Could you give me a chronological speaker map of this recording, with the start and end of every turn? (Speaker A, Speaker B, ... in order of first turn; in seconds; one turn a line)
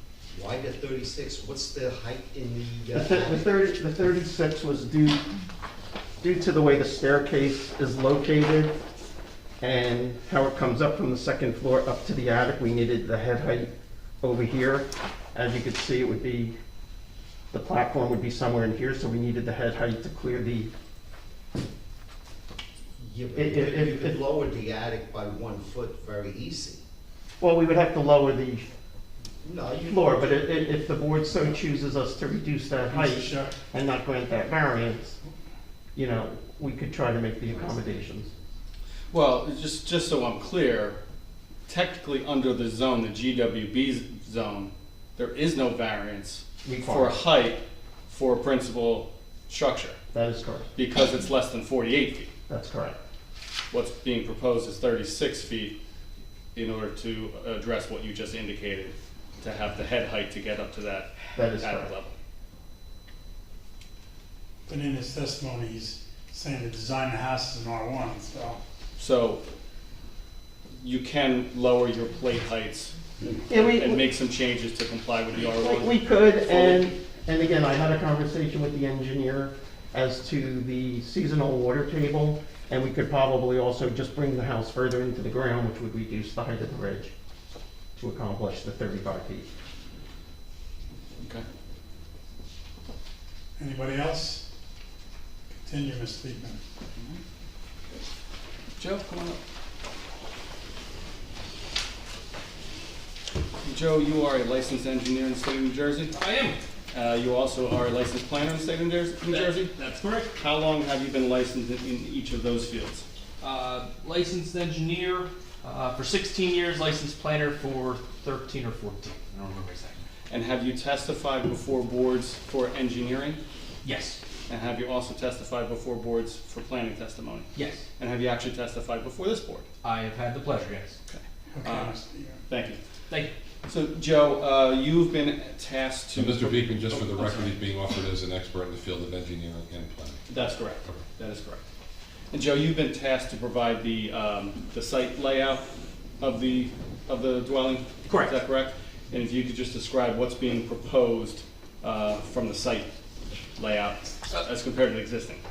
Speaker A: 0.3-3.5
Speaker B: 2.9-5.2
Speaker B: 6.2-8.8
Speaker B: 9.6-16.6
Speaker B: 17.5-20.7
Speaker A: 23.0-26.8
Speaker B: 23.3-24.2
Speaker B: 27.4-28.7
Speaker A: 29.4-30.9
Speaker B: 29.9-35.2
Speaker C: 32.9-33.6
Speaker B: 35.9-38.3
Speaker D: 39.1-41.0
Speaker D: 41.7-50.0
Speaker B: 46.6-47.2
Speaker B: 50.1-50.7
Speaker D: 50.7-52.3
Speaker B: 52.5-53.0
Speaker D: 53.7-55.8
Speaker D: 56.5-62.1
Speaker B: 61.3-61.9
Speaker C: 64.7-68.6
Speaker D: 69.0-69.4
Speaker D: 70.8-77.0
Speaker B: 73.5-74.0
Speaker B: 75.5-87.1
Speaker B: 88.0-89.5
Speaker D: 91.2-91.4
Speaker C: 93.5-94.5
Speaker C: 95.5-96.6
Speaker D: 98.8-99.4
Speaker D: 103.6-106.1
Speaker E: 106.1-106.6
Speaker D: 106.9-109.7
Speaker E: 109.3-110.3
Speaker D: 110.3-113.0
Speaker E: 113.4-120.0
Speaker D: 120.3-123.4
Speaker E: 123.8-124.2
Speaker D: 124.5-127.5
Speaker E: 127.5-127.8
Speaker D: 128.0-129.7
Speaker E: 129.8-131.0
Speaker D: 131.1-131.9
Speaker C: 131.5-132.4
Speaker D: 132.5-132.8
Speaker D: 133.7-137.6
Speaker F: 136.1-140.2
Speaker D: 140.3-141.6
Speaker D: 142.3-145.6
Speaker D: 146.2-152.9
Speaker E: 148.1-148.3
Speaker D: 153.6-155.4